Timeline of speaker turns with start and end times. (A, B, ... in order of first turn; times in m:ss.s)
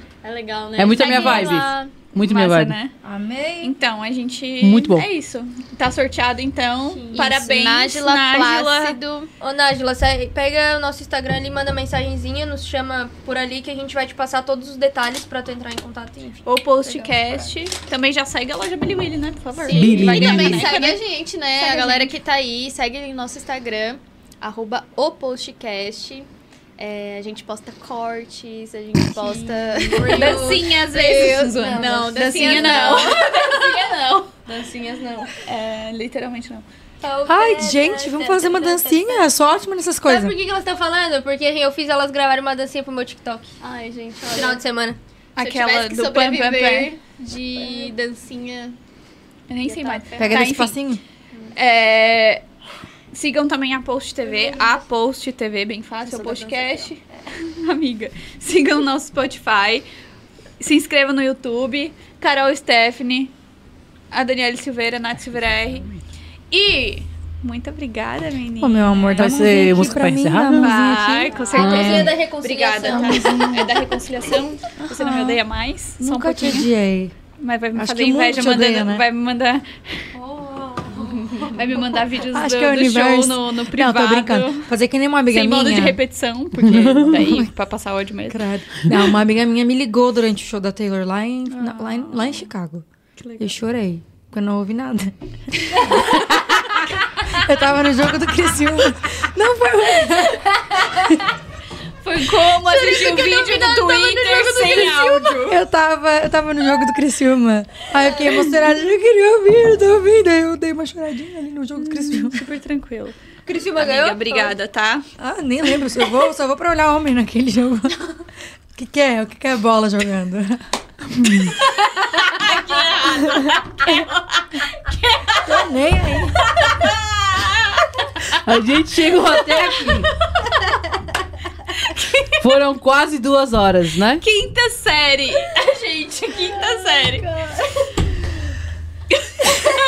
0:00.2-0:02.0 A
0:00.8-0:02.8 B
0:01.0-0:01.4 C
0:01.1-0:01.5 D
0:02.2-0:02.9 C
0:03.0-0:03.7 E
0:03.6-0:09.0 C
0:04.6-0:05.0 B
0:06.9-0:09.3 A
0:09.4-0:17.5 D
0:16.4-0:21.0 C
0:19.5-0:20.9 D
0:19.7-0:34.0 A
0:19.7-0:20.7 B
0:21.5-0:22.1 D
0:29.3-0:35.3 D
0:30.0-0:33.4 C
0:35.4-0:36.6 C
0:37.0-0:39.2 D
0:37.3-0:40.3 E
0:40.0-0:43.6 D
0:43.6-0:44.6 A
0:44.2-0:45.0 D
0:45.4-0:46.9 C
0:45.4-0:48.8 A
0:47.5-0:47.9 D
0:49.5-0:50.8 C
0:49.6-0:50.0 D
0:50.2-0:51.0 E
0:51.5-0:52.4 C
0:53.1-0:59.8 C
0:54.2-0:54.8 D
0:56.0-0:56.9 A
1:00.6-1:03.3 C
1:04.1-1:05.8 C
1:05.3-1:06.0 B
1:06.5-1:09.7 C
1:08.6-1:11.7 E
1:09.2-1:10.7 B
1:10.5-1:16.7 C
1:11.3-1:11.7 A
1:11.5-1:13.4 D
1:11.6-1:12.2 B
1:12.8-1:13.8 E
1:14.9-1:15.4 E
1:16.0-1:17.1 E
1:17.4-1:20.0 C
1:17.7-1:19.0 E
1:20.2-1:21.6 D
1:21.5-1:24.7 C
1:22.3-1:26.0 E
1:25.3-1:28.4 C
1:26.6-1:27.5 E
1:28.3-1:32.8 E
1:31.5-1:32.4 C
1:33.2-1:33.5 C
1:33.4-1:41.2 E
1:40.8-1:41.2 D
1:42.0-1:45.6 C
1:42.2-1:45.4 D
1:45.3-1:52.5 E
1:51.8-1:53.2 C
1:53.4-1:54.5 D
1:53.7-1:55.0 C
1:55.2-1:58.1 E
1:58.7-2:01.6 E
2:02.4-2:03.0 D
2:02.9-2:03.9 C
2:03.1-2:04.0 E
2:04.9-2:05.4 C
2:05.4-2:06.6 E
2:06.5-2:07.8 C
2:08.3-2:10.1 B
2:11.7-2:12.4 C
2:12.4-2:14.2 B
2:14.2-2:17.2 C
2:15.6-2:17.9 D
2:19.4-2:19.7 C